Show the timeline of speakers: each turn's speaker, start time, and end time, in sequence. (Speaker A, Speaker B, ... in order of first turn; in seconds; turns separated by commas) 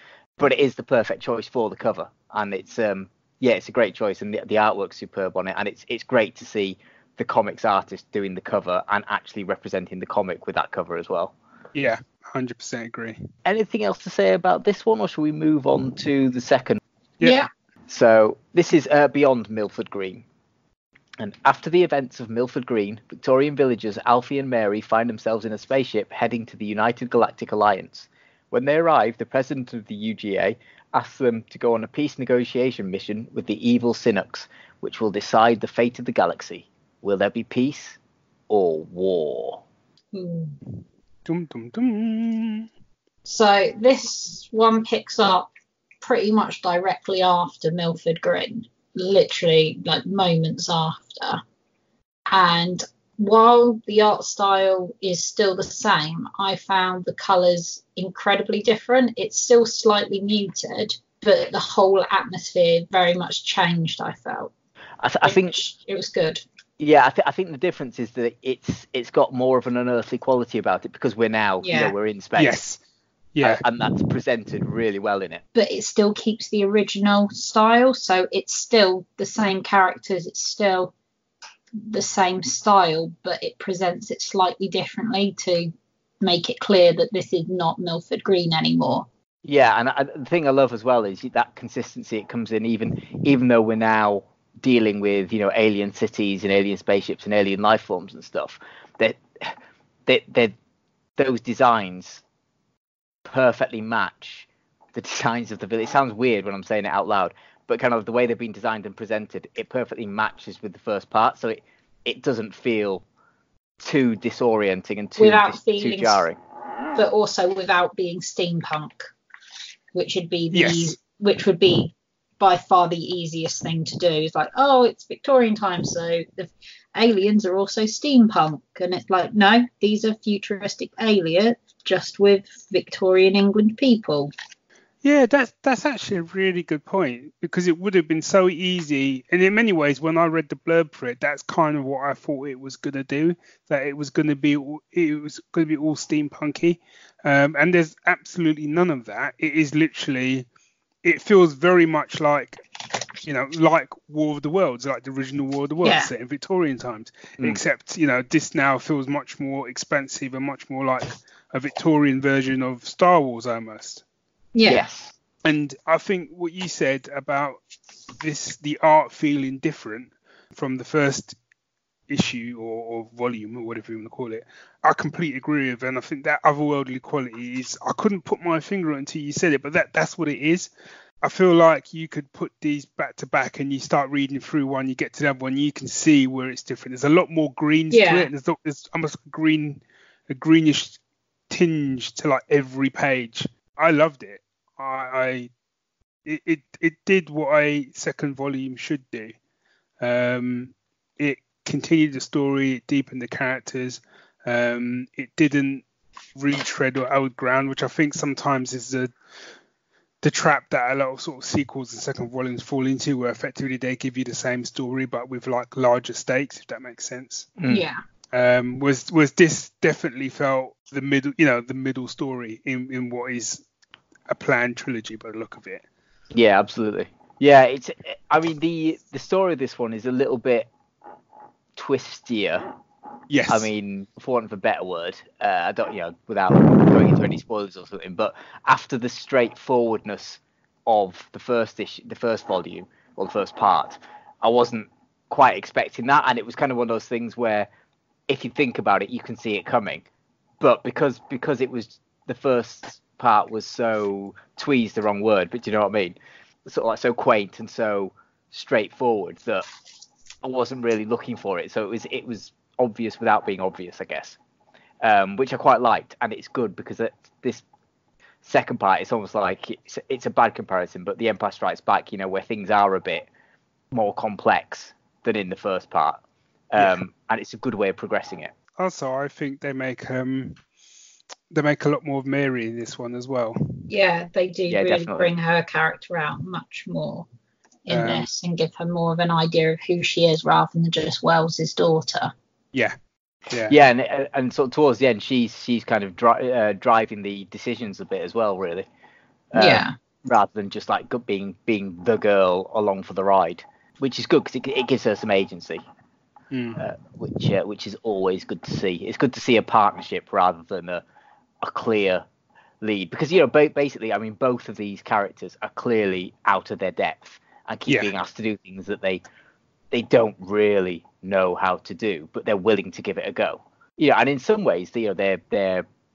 Speaker A: 0.4-11.3, Speaker B: 11.7-13.2, Speaker A: 13.4-16.8, Speaker C: 17.2-17.5, Speaker A: 17.9-20.2, Speaker A: 21.2-38.0, Speaker A: 38.5-39.6, Speaker C: 40.1-40.5, Speaker B: 41.2-42.7, Speaker C: 43.2-45.5, Speaker C: 46.0-51.4, Speaker C: 52.3-64.5, Speaker A: 65.0-65.6, Speaker C: 65.2-66.4, Speaker A: 66.8-72.6, Speaker C: 71.6-71.9, Speaker B: 72.4-72.8, Speaker B: 73.3-74.1, Speaker A: 73.4-75.4, Speaker C: 75.5-80.9, Speaker C: 81.8-89.1, Speaker A: 89.4-100.5, Speaker A: 101.2-102.2, Speaker A: 103.2-113.0, Speaker A: 113.8-116.4, Speaker C: 115.2-116.2, Speaker C: 116.9-119.1, Speaker C: 119.9-134.3, Speaker B: 120.5-121.0, Speaker B: 135.0-150.4, Speaker B: 151.0-152.6, Speaker B: 153.2-164.0, Speaker C: 155.8-156.1, Speaker C: 164.5-164.8, Speaker A: 164.7-165.1, Speaker B: 165.4-167.6, Speaker B: 168.2-171.4, Speaker B: 172.1-180.7, Speaker B: 181.2-191.0, Speaker C: 187.9-188.3, Speaker B: 191.5-195.5, Speaker B: 196.2-199.3, Speaker B: 200.0-205.8, Speaker B: 206.3-209.1, Speaker B: 210.2-217.5, Speaker A: 217.6-217.8, Speaker C: 217.7-218.0, Speaker B: 218.3-223.6, Speaker B: 224.3-225.8, Speaker A: 226.3-230.7, Speaker A: 231.8-232.7, Speaker B: 233.3-233.7, Speaker A: 233.5-247.7, Speaker A: 248.3-250.1, Speaker A: 250.6-259.6, Speaker A: 260.4-264.4, Speaker A: 265.0-267.6, Speaker A: 268.4-273.3, Speaker A: 273.9-278.5, Speaker B: 278.8-280.6, Speaker B: 281.5-283.8, Speaker C: 283.9-287.2, Speaker A: 284.7-285.3, Speaker C: 287.9-292.3, Speaker B: 287.9-288.2, Speaker B: 293.5-293.7, Speaker A: 293.7-298.9, Speaker A: 299.5-305.8, Speaker C: 299.5-299.9, Speaker B: 306.5-306.8, Speaker A: 306.8-311.0, Speaker A: 311.6-312.2, Speaker A: 312.8-319.2, Speaker A: 319.9-325.8